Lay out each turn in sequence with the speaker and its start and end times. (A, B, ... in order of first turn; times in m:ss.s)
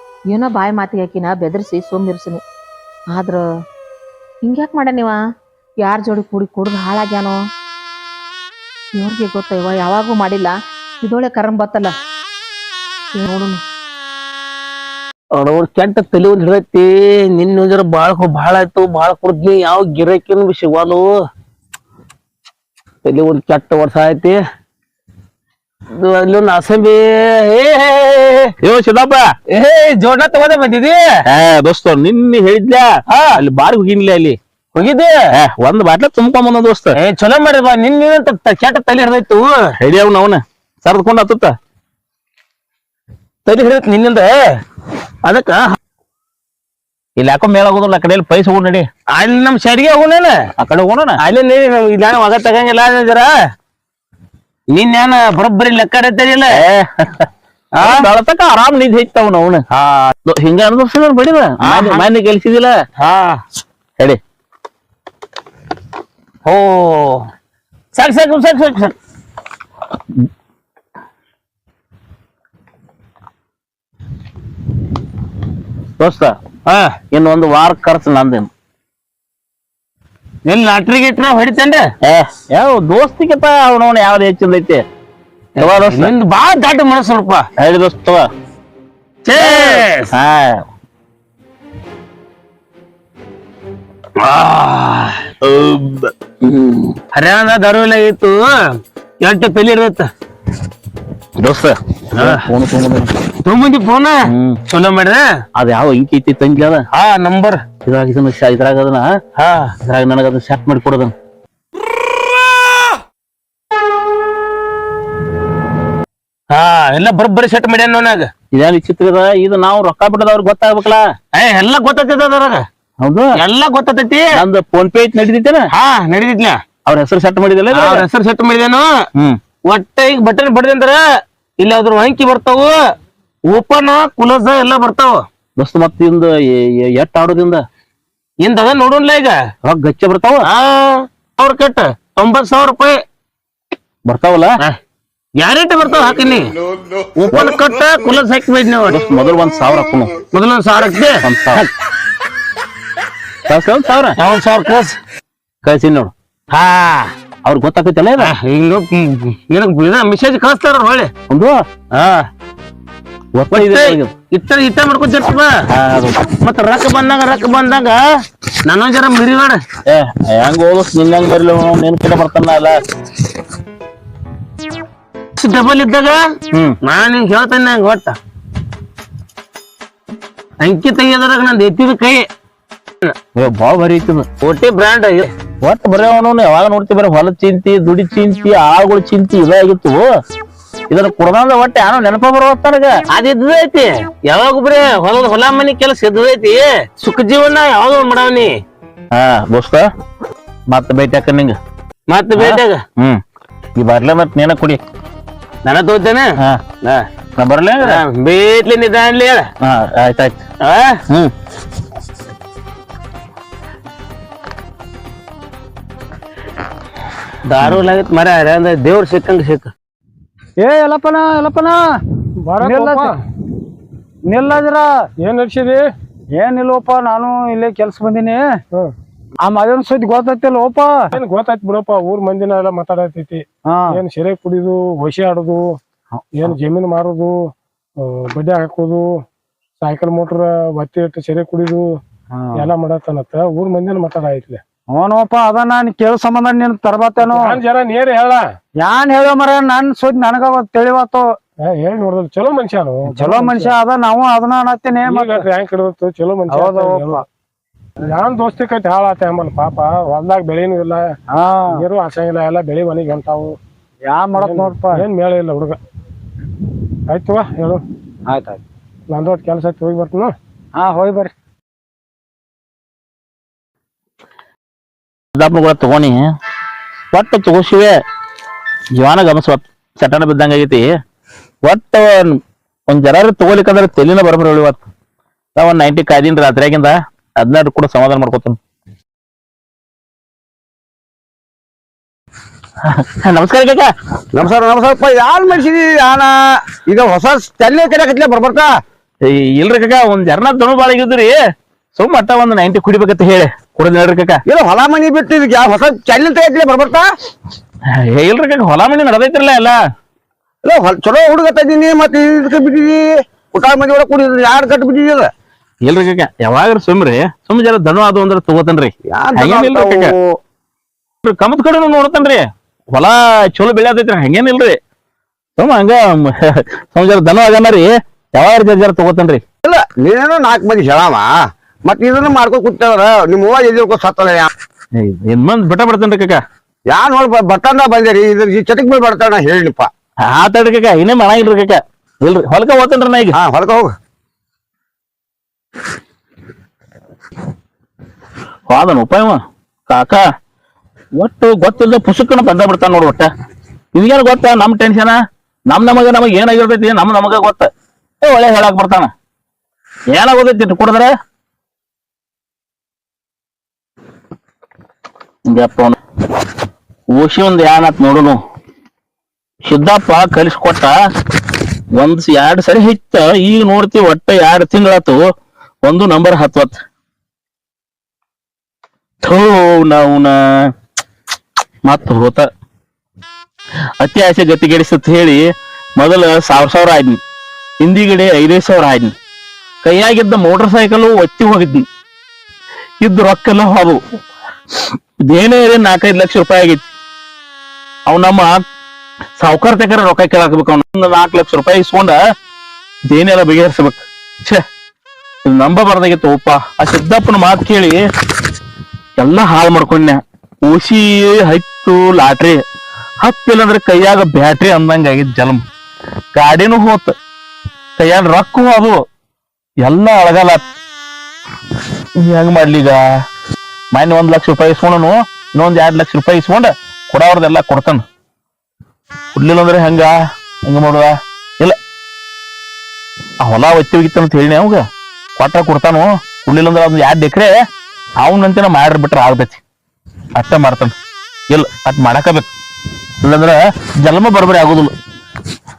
0:00.3-0:02.4 A
0:03.1-0:03.4 A
0:04.4-0:05.2 A
0:05.8-0:07.4 A
0:09.0-0:11.9 A
0:13.2-0:13.6 A
0:15.4-0:21.1 B
0:23.0-0:24.4 B
0:26.0-0:28.5 B
0:28.6-0:29.3 C
0:29.5-0:31.2 B
0:31.3-0:34.4 C
0:33.1-0:33.4 B
0:34.8-0:35.3 B
0:35.3-0:37.0 C
0:37.0-0:39.7 B
0:39.8-0:41.5 C
0:43.5-0:44.5 B
0:45.3-0:45.7 B
0:47.2-0:48.9 C
0:49.1-0:50.4 B
0:50.6-0:51.2 C
0:51.2-0:53.3 B
0:54.7-0:56.6 B
0:56.5-1:02.8 C
0:57.8-0:58.1 B
0:59.8-1:00.1 B
1:01.6-1:02.1 B
1:03.0-1:03.4 B
1:06.4-1:07.2 B
1:07.9-1:08.9 B
1:16.0-1:16.4 C
1:16.7-1:17.0 B
1:17.1-1:18.5 C
1:20.5-1:21.9 B
1:22.0-1:24.8 C
1:25.6-1:27.4 B
1:25.6-1:26.1 C
1:27.6-1:28.2 C
1:29.2-1:30.1 B
1:29.4-1:30.6 C
1:34.2-1:35.3 B
1:35.4-1:36.9 C
1:37.1-1:38.4 B
1:39.2-1:40.1 B
1:41.4-1:43.1 C
1:42.2-1:42.4 B
1:43.4-1:45.2 B
1:44.3-1:44.6 C
1:45.6-1:46.8 C
1:46.9-1:47.7 B
1:47.8-1:49.2 C
1:49.4-1:49.8 B
1:49.8-1:51.1 C
1:56.5-1:58.3 B
1:58.5-2:01.1 C
2:01.3-2:02.6 B
2:03.0-2:03.4 C
2:03.4-2:04.3 B
2:04.3-2:05.7 C
2:05.7-2:06.6 B
2:06.9-2:08.1 C
2:07.7-2:08.9 B
2:09.7-2:11.0 B
2:11.6-2:12.8 B
2:13.5-2:15.2 B
2:15.6-2:17.6 C
2:18.4-2:19.4 B
2:19.6-2:20.5 C
2:20.4-2:23.0 B
2:24.1-2:24.6 C
2:25.4-2:26.6 B
2:27.2-2:29.0 B
2:28.9-2:30.2 C
2:30.2-2:31.6 B
2:31.2-2:31.7 C
2:33.5-2:34.2 C
2:34.2-2:35.0 B
2:35.6-2:36.1 C
2:36.5-2:37.1 B
2:37.4-2:38.4 C
2:38.2-2:41.1 B
2:41.3-2:41.6 C
2:41.9-2:42.2 B
2:43.4-2:44.1 C
2:43.5-2:45.5 B
2:45.7-2:46.4 C
2:46.4-2:48.0 B
2:48.6-2:49.6 B
2:49.9-2:52.8 C
2:55.4-2:56.2 B
2:56.8-2:58.2 B
3:00.6-3:02.2 B
3:03.4-3:04.3 C
3:04.4-3:05.3 B
3:05.6-3:10.0 C
3:10.9-3:13.0 C
3:13.1-3:18.5 B
3:19.1-3:19.9 C
3:20.7-3:21.6 C
3:22.1-3:22.8 B
3:22.4-3:23.2 C
3:23.8-3:24.8 C
3:25.6-3:27.0 B
3:26.4-3:26.6 C
3:27.4-3:28.0 C
3:27.8-3:29.5 B
3:29.6-3:30.4 C
3:30.6-3:31.0 B
3:37.5-3:39.7 B
3:40.6-3:41.8 D
3:42.5-3:43.1 E
3:42.6-3:43.1 D
3:44.3-3:44.9 D
3:45.2-3:45.8 E
3:46.4-3:48.4 D
3:49.5-3:50.9 D
3:51.2-3:53.4 E
3:53.9-3:55.6 E
3:56.5-3:57.3 E
3:58.3-3:59.0 E
3:59.8-4:01.8 E
4:02.6-4:04.6 E
4:05.0-4:07.4 D
4:07.2-4:08.4 E
4:08.8-4:11.2 D
4:11.7-4:13.8 E
4:13.2-4:15.4 D
4:15.0-4:17.2 E
4:16.6-4:17.1 D
4:18.2-4:21.0 E
4:21.4-4:21.8 D
4:21.8-4:23.5 E
4:24.1-4:25.0 D
4:24.4-4:25.8 E
4:27.1-4:27.8 E
4:28.3-4:28.6 D
4:29.1-4:30.3 E
4:30.8-4:31.3 D
4:35.4-4:36.2 C
4:37.1-4:37.9 C
4:38.9-4:41.0 C
4:41.6-4:44.8 C
4:45.6-4:48.6 C
4:52.8-4:53.9 C
4:54.3-4:58.7 F
4:59.2-5:01.4 C
5:02.0-5:04.4 C
5:04.5-5:07.1 F
5:07.9-5:09.8 C
5:10.6-5:15.3 F
5:15.8-5:20.1 C
5:19.1-5:20.1 F
5:21.2-5:24.8 C
5:25.6-5:29.4 C
5:29.6-5:31.3 F
5:31.9-5:34.5 F
5:35.0-5:36.4 C
5:36.9-5:39.9 F
5:40.2-5:43.4 C
5:43.4-5:43.9 F
5:48.7-5:50.2 C
5:51.2-5:53.3 C
5:53.9-5:55.2 C
5:55.7-5:57.7 C
5:58.2-5:59.1 C
6:00.1-6:01.1 C
6:05.5-6:06.0 C
6:07.1-6:08.4 C
6:09.7-6:10.9 C
6:11.9-6:15.2 C
6:15.8-6:16.8 C
6:19.2-6:20.7 C
6:21.8-6:22.5 C
6:24.0-6:27.2 C
6:27.8-6:29.2 C
6:29.8-6:31.9 C
6:33.0-6:34.0 C
6:34.7-6:36.9 C
6:38.1-6:38.6 C
6:39.4-6:42.2 C
6:43.1-6:44.6 C
6:45.4-6:48.0 C
6:49.2-6:52.6 C
6:53.2-6:55.6 C
6:56.3-6:57.1 C
6:58.0-6:59.0 C
6:59.8-7:00.6 C
7:02.2-7:03.0 C
7:03.9-7:08.0 C
7:09.3-7:10.1 C
7:10.7-7:11.8 C
7:13.4-7:14.8 C
7:15.4-7:17.6 C
7:18.2-7:19.6 C
7:20.4-7:21.0 C
7:21.5-7:22.5 C
7:23.2-7:24.9 C